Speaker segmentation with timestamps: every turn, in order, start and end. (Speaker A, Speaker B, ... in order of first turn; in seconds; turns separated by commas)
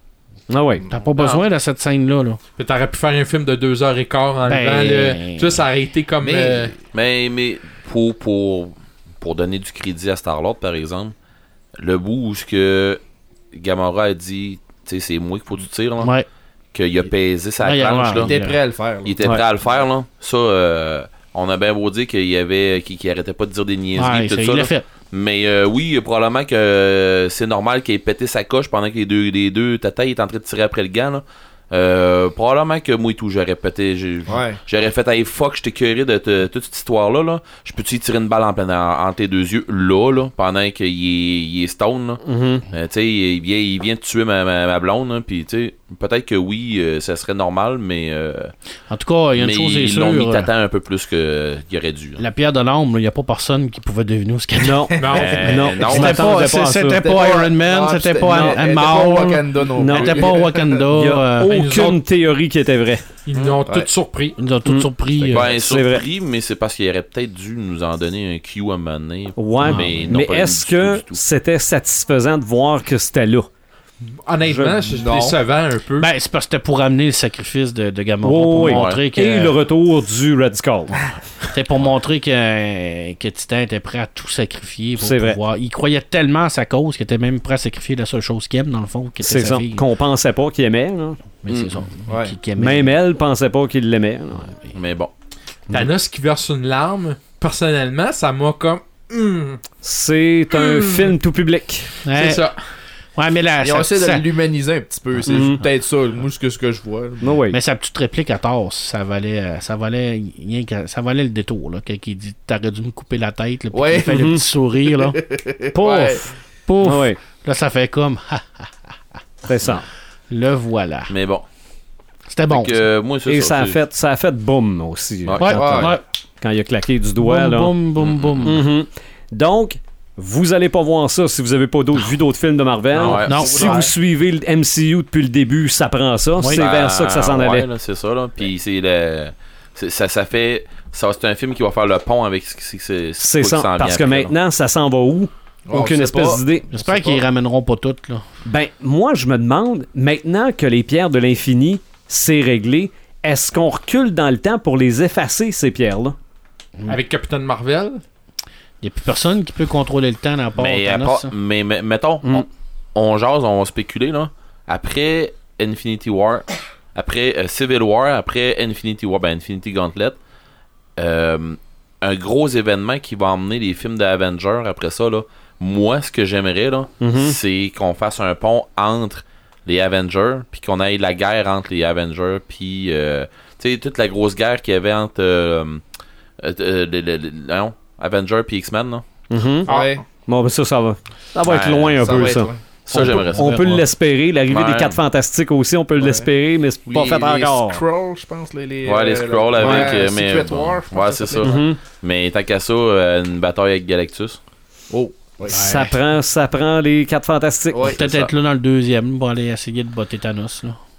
Speaker A: 0.5-0.9, Speaker B: 0.9-2.4, Speaker C: 1.1-1.4, Speaker C: 2.6-6.7, Speaker B: 4.5-5.6, Speaker D: 6.2-6.7, Speaker E: 6.9-11.1, Speaker E: 11.8-13.0, Speaker E: 13.5-16.1, Speaker B: 16.0-16.2, Speaker E: 16.7-18.4, Speaker B: 17.6-18.6, Speaker D: 18.2-19.1, Speaker E: 19.0-48.5, Speaker B: 24.0-24.8, Speaker D: 34.3-34.6, Speaker A: 42.2-42.6, Speaker B: 48.9-50.5, Speaker E: 49.4-52.2, Speaker B: 52.2-61.8, Speaker A: 54.6-57.1, Speaker C: 55.0-55.4, Speaker E: 55.2-56.4, Speaker D: 57.0-60.8, Speaker A: 58.2-58.6, Speaker A: 59.8-60.3, Speaker A: 60.9-63.1, Speaker C: 61.5-62.0, Speaker C: 63.2-64.4, Speaker B: 64.4-65.6, Speaker E: 65.3-71.2, Speaker A: 65.5-66.0, Speaker A: 69.4-73.5, Speaker B: 69.6-69.9, Speaker C: 74.2-76.1, Speaker A: 74.4-74.8, Speaker D: 74.8-75.4, Speaker B: 76.0-79.6, Speaker A: 78.2-81.0, Speaker E: 78.6-79.0, Speaker B: 81.5-89.9, Speaker A: 85.0-85.4, Speaker A: 89.2-91.2, Speaker B: 91.4-93.0, Speaker E: 91.5-91.8, Speaker D: 92.1-92.3, Speaker A: 92.6-94.5, Speaker E: 94.7-95.1, Speaker C: 95.7-99.6, Speaker A: 99.8-101.9, Speaker C: 100.5-101.1, Speaker B: 102.0-102.4, Speaker C: 102.1-102.5, Speaker B: 103.2-104.2, Speaker D: 103.6-107.4, Speaker A: 105.3-105.6, Speaker A: 107.2-107.6, Speaker B: 107.5-115.2, Speaker D: 113.7-116.2, Speaker A: 114.1-114.4, Speaker A: 115.7-116.2, Speaker B: 116.7-118.7, Speaker A: 116.8-117.2, Speaker A: 119.4-119.8, Speaker B: 120.3-121.1, Speaker E: 121.1-121.4, Speaker B: 122.3-122.8, Speaker E: 122.5-123.8, Speaker A: 123.2-127.7, Speaker E: 125.2-125.9, Speaker B: 125.4-126.0, Speaker D: 125.5-125.9, Speaker B: 127.2-128.6, Speaker E: 128.0-128.6, Speaker A: 128.4-137.7, Speaker E: 132.9-133.8, Speaker D: 133.0-133.9, Speaker B: 133.2-133.8, Speaker E: 136.5-144.3, Speaker A: 143.2-146.7, Speaker D: 145.7-147.2, Speaker B: 146.7-148.2, Speaker A: 148.4-156.2, Speaker C: 156.9-158.0, Speaker B: 158.8-161.3, Speaker E: 160.6-170.2, Speaker E: 171.0-185.8, Speaker A: 177.0-177.4, Speaker E: 186.4-189.0, Speaker A: 189.3-189.7, Speaker D: 189.7-190.0, Speaker C: 189.7-190.0, Speaker A: 190.2-197.8, Speaker E: 191.4-192.2, Speaker D: 192.0-192.6, Speaker E: 192.8-193.8, Speaker B: 192.9-193.8, Speaker E: 194.5-195.0, Speaker D: 196.0-196.3, Speaker D: 196.8-201.6, Speaker E: 198.8-204.4, Speaker A: 199.6-199.9, Speaker A: 201.4-201.8, Speaker D: 204.9-205.7, Speaker A: 205.5-207.9, Speaker B: 205.5-205.9, Speaker D: 207.7-208.0, Speaker E: 207.8-208.3, Speaker B: 207.8-210.8